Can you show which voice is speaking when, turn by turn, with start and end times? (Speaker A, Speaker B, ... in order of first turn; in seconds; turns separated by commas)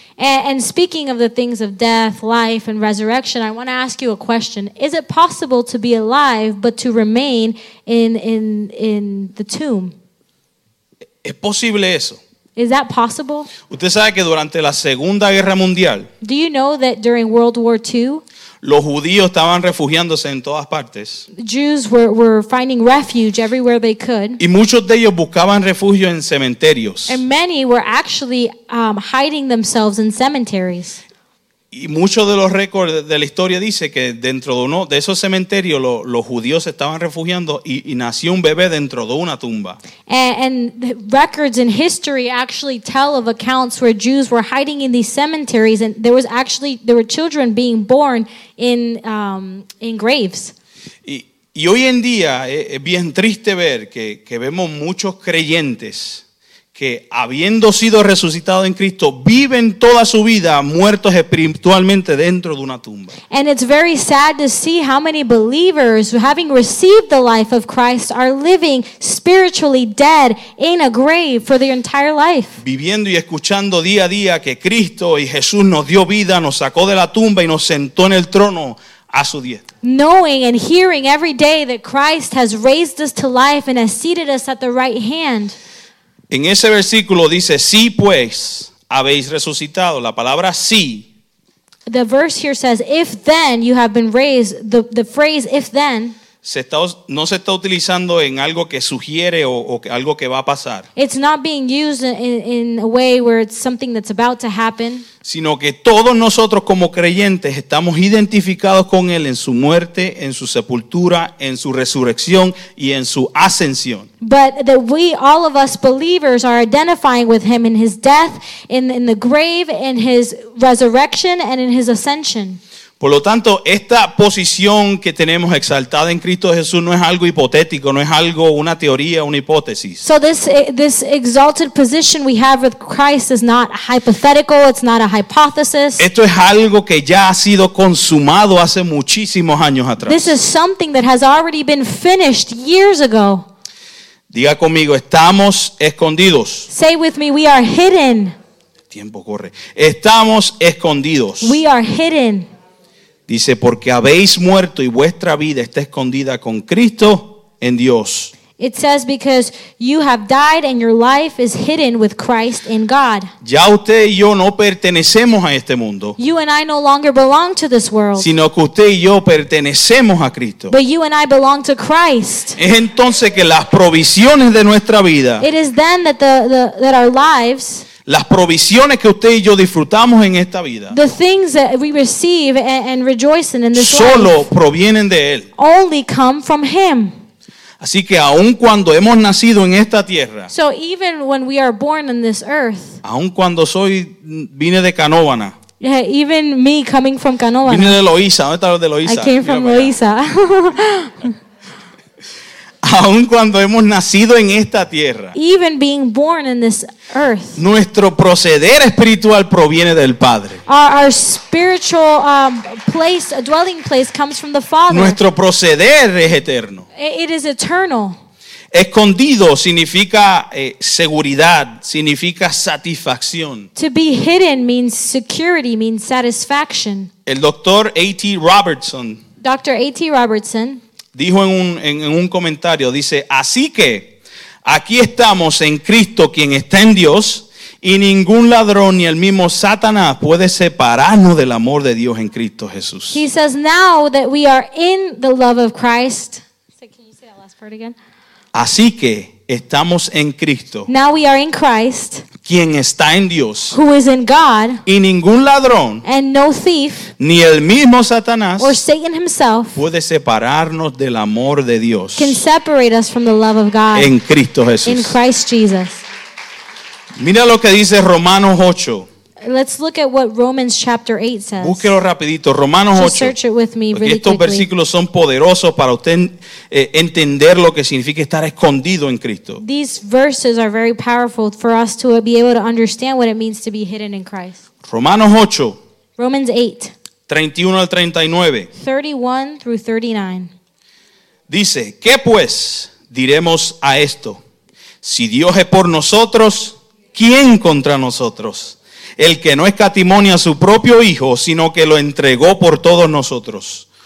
Speaker A: 0.2-9.9, Speaker B: 11.2-12.2, Speaker A: 12.6-13.5, Speaker B: 13.7-16.1, Speaker A: 16.2-18.2, Speaker B: 18.6-21.3, Speaker A: 21.4-24.4, Speaker B: 24.4-27.2, Speaker A: 27.1-31.0, Speaker B: 31.7-39.8, Speaker A: 40.1-50.5, Speaker B: 51.0-56.2, Speaker B: 56.8-63.1, Speaker A: 63.3-72.6, Speaker B: 72.6-79.6, Speaker A: 79.8-85.5, Speaker B: 86.3-91.1, Speaker A: 91.9-96.2, Speaker B: 96.4-100.9, Speaker A: 101.0-105.1, Speaker B: 105.2-114.1, Speaker A: 114.2-122.6, Speaker B: 123.0-130.0, Speaker A: 130.0-136.1, Speaker B: 136.0-140.4, Speaker A: 140.1-143.4, Speaker B: 144.3-146.7, Speaker A: 146.7-148.3, Speaker B: 148.9-151.6, Speaker A: 151.4-152.5, Speaker B: 153.3-158.3, Speaker A: 158.6-163.3, Speaker B: 163.4-166.2, Speaker A: 166.2-168.3, Speaker B: 168.2-170.7, Speaker A: 170.7-172.6, Speaker B: 172.6-175.4, Speaker A: 175.4-177.9, Speaker B: 178.1-180.9, Speaker A: 180.9-184.5, Speaker B: 183.8-185.5, Speaker A: 185.6-187.1, Speaker B: 187.8-190.5, Speaker A: 190.5-193.0, Speaker B: 193.0-195.6, Speaker A: 195.8-198.0, Speaker B: 197.7-199.9, Speaker A: 199.0-201.3, Speaker B: 202.8-205.3, Speaker A: 205.3-207.6, Speaker B: 207.6-210.6, Speaker A: 210.7-215.2, Speaker B: 214.9-216.9, Speaker A: 216.9-218.2, Speaker B: 218.7-223.7, Speaker A: 223.8-227.1, Speaker B: 227.3-229.2, Speaker A: 229.4-230.8, Speaker B: 231.1-234.1, Speaker B: 234.6-243.2, Speaker A: 243.1-247.9, Speaker B: 248.5-250.9, Speaker A: 250.9-252.3, Speaker B: 252.4-253.8, Speaker A: 253.7-254.8, Speaker B: 254.9-256.1, Speaker A: 256.0-257.1, Speaker B: 257.2-258.8, Speaker A: 258.6-259.8, Speaker B: 259.8-262.4, Speaker A: 262.1-264.1, Speaker B: 263.9-265.1, Speaker A: 264.9-266.1, Speaker B: 267.1-269.1, Speaker A: 269.4-271.9, Speaker B: 271.6-273.4, Speaker A: 272.9-274.7, Speaker B: 273.9-279.6, Speaker A: 279.6-284.6, Speaker B: 284.8-285.8, Speaker A: 286.2-286.9, Speaker B: 287.3-288.7, Speaker A: 288.8-290.5, Speaker B: 291.5-294.4, Speaker B: 295.0-303.9